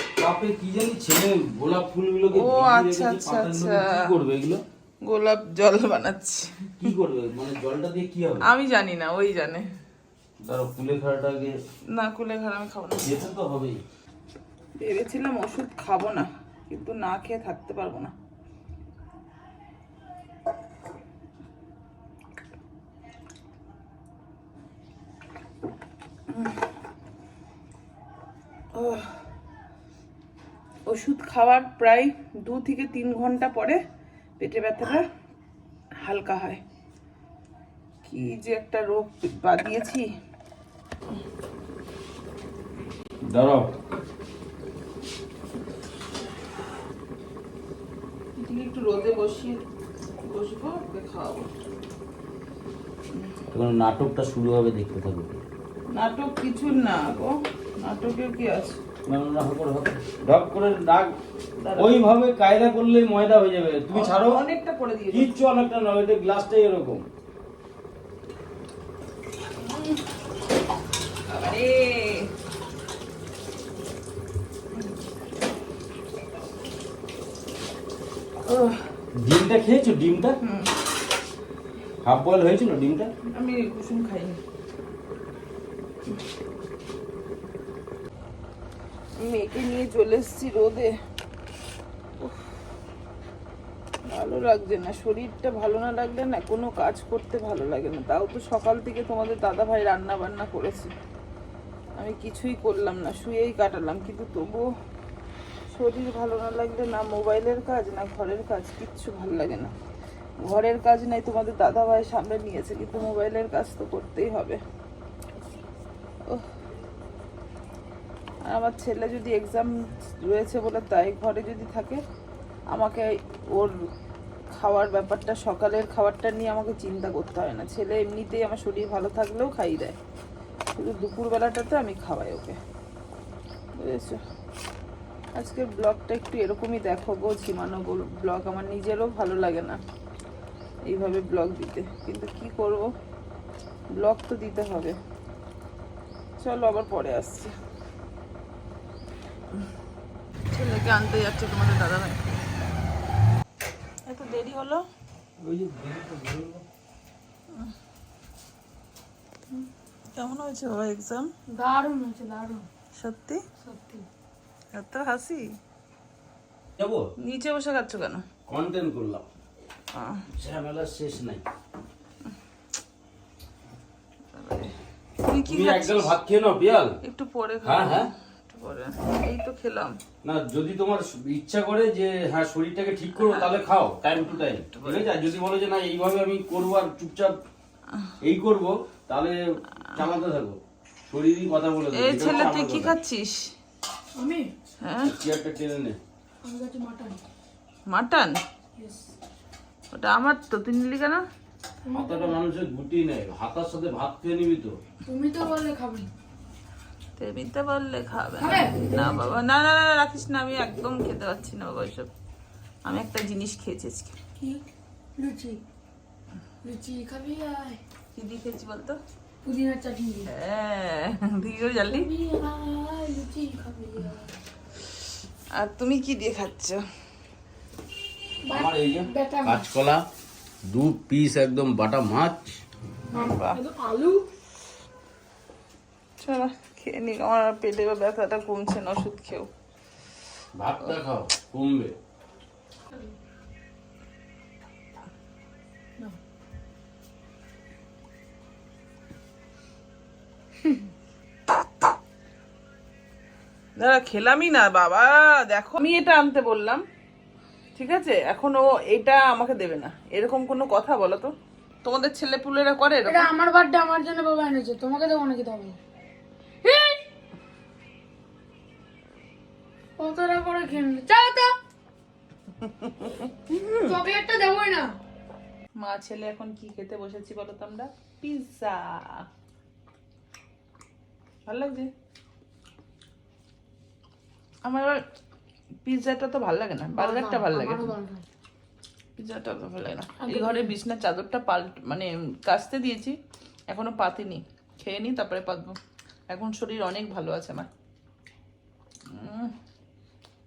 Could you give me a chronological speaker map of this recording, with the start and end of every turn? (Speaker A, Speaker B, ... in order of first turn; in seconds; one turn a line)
Speaker A: 0.2-4.6
Speaker B: 2.3-4.1
Speaker B: 5.0-6.7
Speaker A: 6.8-8.5
Speaker B: 8.4-9.7
Speaker A: 10.5-11.6
Speaker B: 11.9-13.2
Speaker A: 13.0-13.8
Speaker B: 14.8-18.1
Speaker B: 26.3-26.7
Speaker B: 28.7-29.2
Speaker B: 30.9-33.8
Speaker B: 34.4-35.0
Speaker B: 36.0-36.6
Speaker B: 38.0-40.1
Speaker A: 43.2-43.7
Speaker B: 48.4-49.6
Speaker B: 50.2-51.5
Speaker A: 53.5-55.4
Speaker B: 55.9-58.8
Speaker A: 59.1-61.1
Speaker B: 61.6-62.0
Speaker A: 61.8-64.4
Speaker B: 63.9-65.3
Speaker A: 65.1-67.0
Speaker B: 69.6-70.0
Speaker B: 71.3-72.3
Speaker B: 78.4-78.8
Speaker A: 79.2-80.4
Speaker B: 80.4-80.8
Speaker A: 82.0-83.1
Speaker B: 83.3-84.4
Speaker B: 89.2-90.9
Speaker B: 92.2-92.5
Speaker B: 94.1-100.9
Speaker B: 102.0-104.7
Speaker B: 105.7-109.7
Speaker B: 110.4-114.6
Speaker B: 118.5-122.0
Speaker B: 122.7-123.8
Speaker B: 124.5-130.0
Speaker B: 130.8-132.6
Speaker B: 133.8-134.2
Speaker B: 135.3-139.8
Speaker B: 140.9-142.9
Speaker B: 144.0-145.0
Speaker B: 146.4-147.5
Speaker B: 150.5-152.2
Speaker B: 154.1-154.8
Speaker A: 155.4-156.6
Speaker B: 159.5-161.3
Speaker C: 161.5-162.7
Speaker B: 163.0-163.4
Speaker C: 163.6-164.1
Speaker B: 164.7-165.6
Speaker A: 166.8-167.1
Speaker B: 167.2-168.2
Speaker A: 168.5-169.2
Speaker B: 169.9-170.3
Speaker A: 170.3-171.5
Speaker B: 174.3-176.1
Speaker A: 175.5-177.0
Speaker B: 177.0-180.0
Speaker A: 177.6-178.1
Speaker A: 180.2-187.4
Speaker B: 183.2-183.5
Speaker B: 184.7-185.1
Speaker A: 188.2-189.4
Speaker A: 189.9-190.6
Speaker A: 191.1-193.0
Speaker B: 191.9-193.5
Speaker C: 194.2-194.5
Speaker B: 194.8-195.1
Speaker A: 195.0-196.0
Speaker C: 196.4-197.2
Speaker B: 197.9-198.4
Speaker C: 198.8-199.1
Speaker B: 199.9-201.2
Speaker C: 201.9-202.3
Speaker A: 201.9-204.8
Speaker C: 205.1-206.1
Speaker B: 207.2-212.1
Speaker C: 208.4-209.2
Speaker B: 212.9-214.2
Speaker C: 215.2-215.6
Speaker C: 216.6-217.8
Speaker B: 218.2-219.0
Speaker C: 219.4-220.3
Speaker B: 220.3-222.1
Speaker C: 221.9-224.3
Speaker B: 225.6-226.8
Speaker C: 228.4-229.7
Speaker A: 228.5-230.0
Speaker A: 230.7-232.5
Speaker B: 233.1-233.6
Speaker C: 233.1-234.2
Speaker B: 236.2-239.5
Speaker A: 240.6-241.9
Speaker B: 253.8-256.8
Speaker B: 257.8-261.3
Speaker B: 261.8-263.3
Speaker C: 263.1-265.8
Speaker C: 266.6-267.1
Speaker C: 270.0-271.5
Speaker B: 272.6-273.9
Speaker C: 273.7-275.0
Speaker B: 275.8-279.3
Speaker B: 281.5-281.9
Speaker B: 284.6-285.0
Speaker B: 285.9-287.9
Speaker C: 286.9-288.2
Speaker B: 289.2-293.2
Speaker C: 290.2-290.7
Speaker B: 293.7-295.8
Speaker B: 296.3-297.7
Speaker B: 299.1-299.5